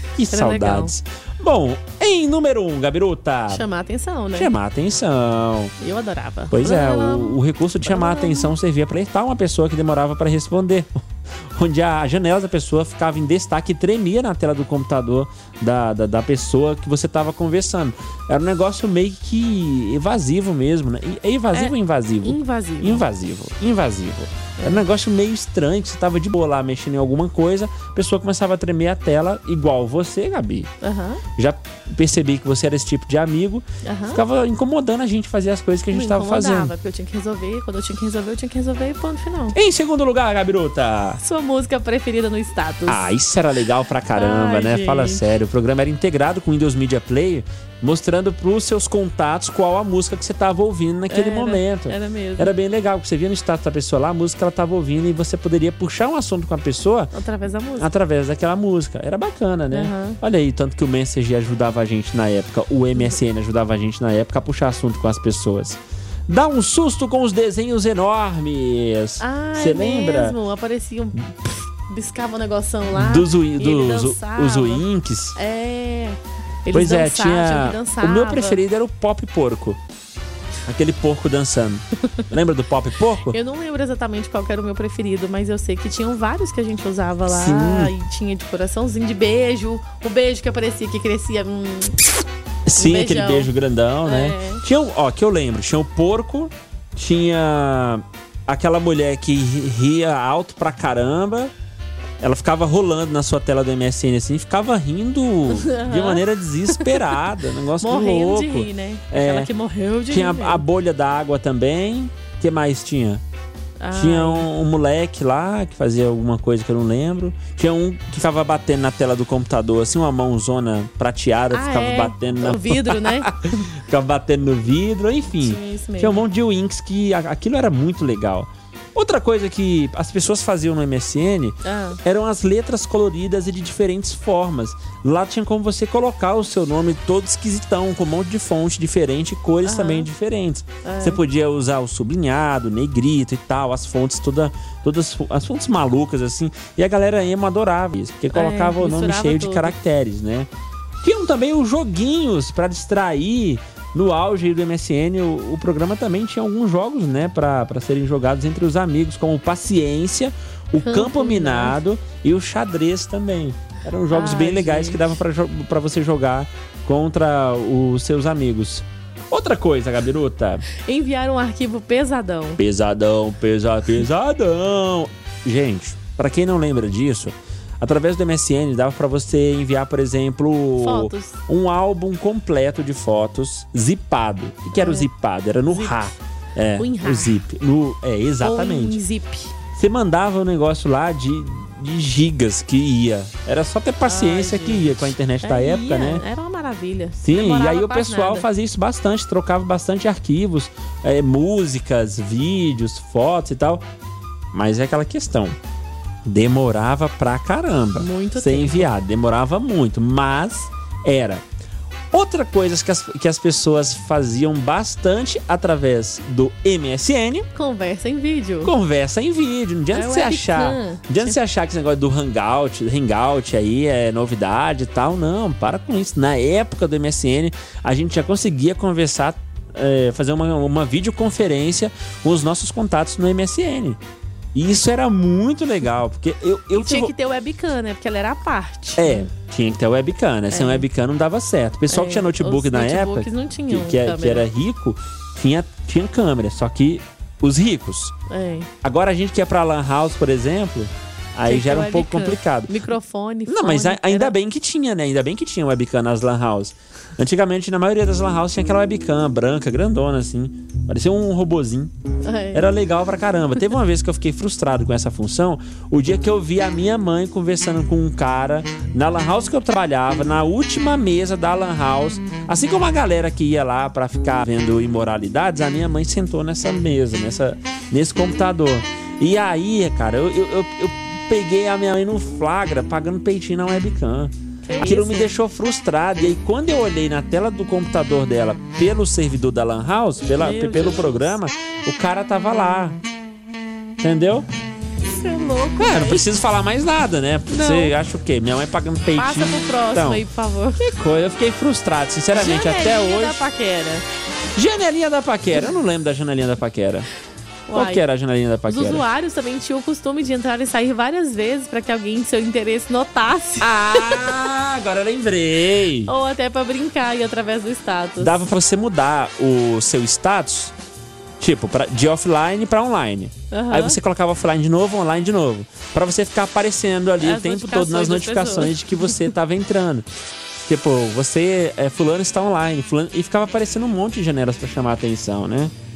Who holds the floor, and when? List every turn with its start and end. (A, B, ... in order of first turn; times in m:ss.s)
0:00.2-0:03.6 A
0:00.3-0:00.9 B
0:03.5-0:04.5 B
0:04.3-0:05.7 A
0:05.8-0:08.5 B
0:06.5-0:30.7 A
0:21.5-0:23.0 B
0:24.6-0:24.8 B
0:30.8-0:31.2 B
0:31.4-0:36.7 A
0:33.8-0:34.2 B
0:35.9-0:39.6 B
0:39.5-0:41.2 A
0:41.2-0:43.1 B
0:42.9-0:57.1 A
0:44.1-0:45.2 B
0:51.1-0:52.5 B
0:57.1-0:57.9 B
0:57.8-1:10.4 A
0:59.7-1:00.2 B
1:09.2-1:14.8 B
1:12.9-1:15.4 A
1:15.4-1:18.6 B
1:16.7-1:19.8 A
1:20.6-1:23.4 A
1:23.3-1:32.0 B
1:27.3-1:27.9 A
1:32.6-1:41.5 A
1:32.8-1:33.5 B
1:34.0-1:34.6 B
1:42.2-1:49.5 A
1:45.5-1:47.1 B
1:47.8-1:50.6 B
1:50.1-1:53.2 A
1:53.8-1:54.5 B
1:53.9-2:30.5 A
2:01.5-2:03.7 B
2:05.4-2:06.2 B
2:11.6-2:12.0 B
2:19.6-2:20.1 B
2:20.8-2:21.2 B
2:28.3-2:29.7 B
2:31.0-2:50.6 A
2:40.8-2:41.8 B
2:44.1-2:45.1 B
2:50.8-2:52.6 B
2:52.6-3:09.0 A
3:00.8-3:01.4 B
3:04.8-3:05.1 B
3:05.7-3:06.1 B
3:06.8-3:07.4 B
3:08.4-3:09.5 B
3:09.7-3:16.2 A
3:14.0-3:18.5 B
3:17.2-3:23.8 A
3:24.5-3:25.6 A
3:26.2-3:31.4 A
3:28.0-3:28.9 B
3:32.1-3:37.5 A
3:37.5-3:38.7 B
3:38.6-3:54.0 A
3:39.9-3:41.4 B
3:54.5-3:57.1 A
3:56.7-3:59.3 B
3:59.0-4:08.1 A
4:00.5-4:00.8 B
4:01.9-4:04.4 B
4:08.3-4:08.7 B
4:08.8-4:12.7 A
4:11.4-4:14.3 B
4:13.5-4:21.9 A
4:22.2-4:22.7 B
4:22.5-4:53.0 A
4:44.6-4:45.3 B
4:50.3-4:51.4 B
4:54.0-4:54.5 A
4:55.0-4:56.2 B
4:55.8-5:00.2 A
4:57.5-4:57.9 B
4:59.2-5:00.9 B
5:00.8-5:03.4 A
5:02.3-5:04.0 B
5:04.5-5:07.1 A
5:07.7-5:08.0 B
5:07.7-5:09.0 A
5:08.7-5:14.3 B
5:13.6-5:16.1 A
5:16.0-5:18.4 B
5:18.2-5:20.7 A
5:21.4-5:35.7 A
5:23.5-5:24.0 B
5:27.2-5:29.2 B